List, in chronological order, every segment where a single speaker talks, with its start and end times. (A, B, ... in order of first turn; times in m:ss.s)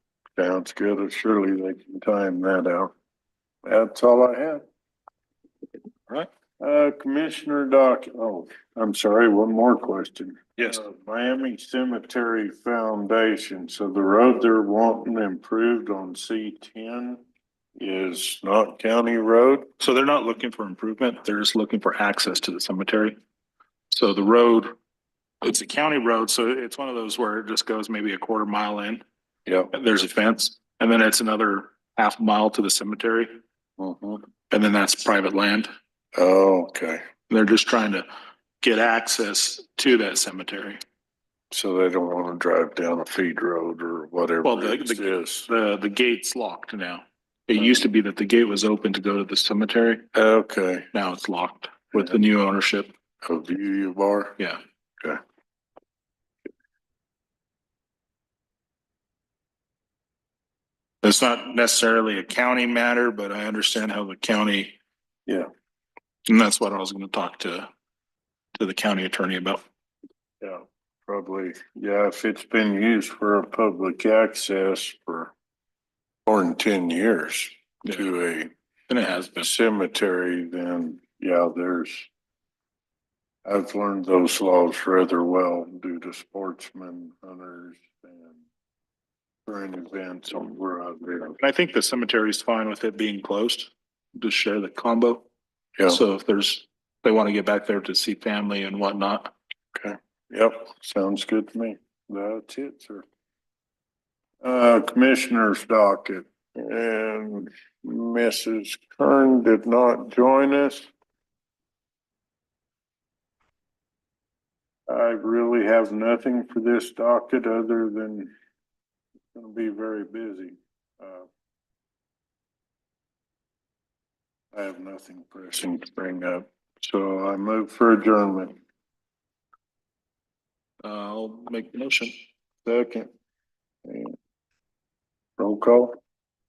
0:00.4-0:02.9 A
0:03.6-0:04.6 A
0:06.6-0:17.2 A
0:17.8-0:19.7 A
0:19.8-0:23.2 B
0:23.9-0:24.7 B
0:25.4-0:29.0 B
0:29.7-0:33.3 B
0:33.8-0:34.2 A
0:34.5-0:35.7 B
0:36.2-0:37.0 A
0:37.3-0:38.0 B
0:38.6-0:40.8 B
0:41.5-0:45.5 A
0:44.4-0:50.0 B
0:50.1-0:50.9 A
0:50.9-0:52.9 B
0:53.2-0:54.4 A
1:01.0-1:04.8 B
1:06.3-1:07.7 B
1:08.6-1:09.6 B
1:10.4-1:15.3 A
1:16.3-1:18.5 A
1:18.9-1:19.5 B
1:19.4-1:22.1 A
1:23.4-1:28.4 A
1:29.5-1:31.4 A
1:31.4-1:35.2 B
1:35.9-1:39.3 B
1:39.8-1:43.0 A
1:44.4-1:50.9 A
1:54.9-1:58.3 A
1:59.3-2:01.3 A
2:04.5-2:08.6 A
2:10.8-2:12.2 B
2:12.6-2:13.1 A
2:13.8-2:14.2 A
2:15.4-2:16.0 A